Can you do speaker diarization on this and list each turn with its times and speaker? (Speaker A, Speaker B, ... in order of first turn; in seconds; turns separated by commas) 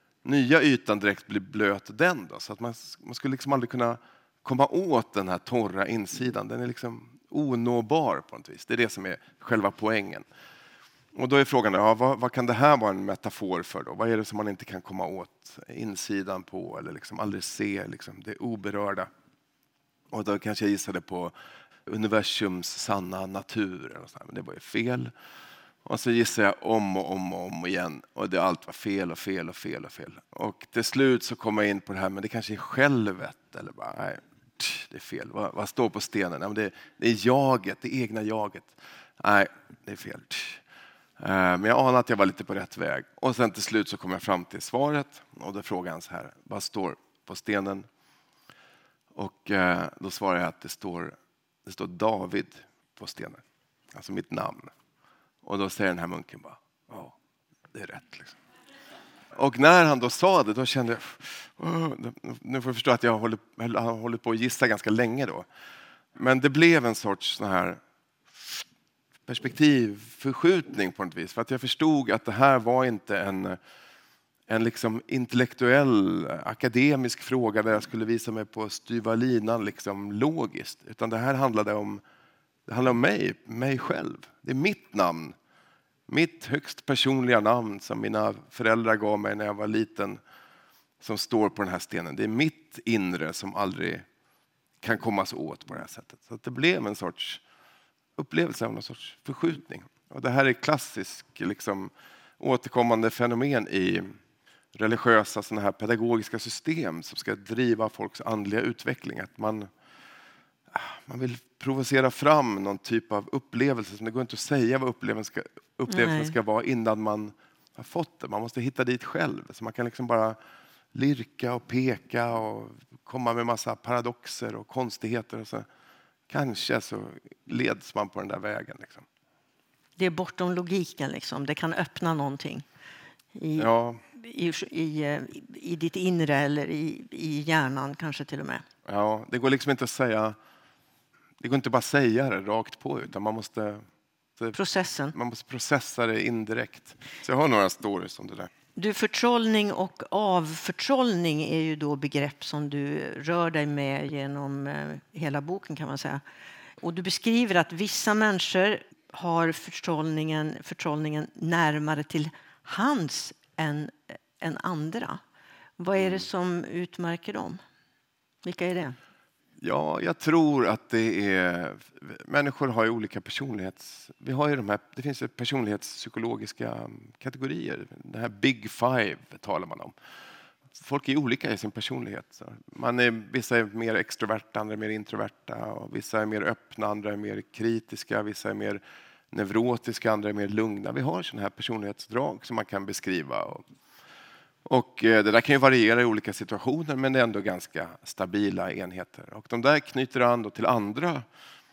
Speaker A: 0.2-10.3, Speaker A: 11.2-19.1, Speaker A: 20.1-21.3, Speaker A: 21.9-25.1, Speaker A: 25.9-40.6, Speaker A: 41.2-47.9, Speaker A: 49.1-54.7, Speaker A: 55.4-57.2, Speaker A: 57.7-58.4, Speaker A: 59.3-65.5, Speaker A: 66.2-67.8, Speaker A: 68.3-68.6, Speaker A: 69.3-73.6, Speaker A: 74.5-82.0, Speaker A: 82.7-85.4, Speaker A: 86.1-90.2, Speaker A: 91.0-94.1, Speaker A: 94.8-97.4, Speaker A: 98.2-104.2, Speaker A: 104.8-109.7, Speaker A: 110.7-120.4, Speaker B: 115.9-116.3, Speaker A: 120.9-125.7, Speaker A: 126.3-129.1, Speaker B: 130.0-132.7, Speaker B: 133.3-138.6, Speaker A: 133.6-134.0, Speaker A: 138.9-140.4, Speaker A: 141.4-143.8, Speaker B: 144.5-145.2, Speaker A: 145.1-148.5, Speaker B: 148.8-156.2, Speaker B: 156.8-165.2, Speaker B: 165.8-167.6, Speaker A: 166.0-166.2, Speaker B: 168.4-169.0, Speaker A: 169.6-179.9, Speaker A: 180.7-193.7, Speaker A: 194.7-201.3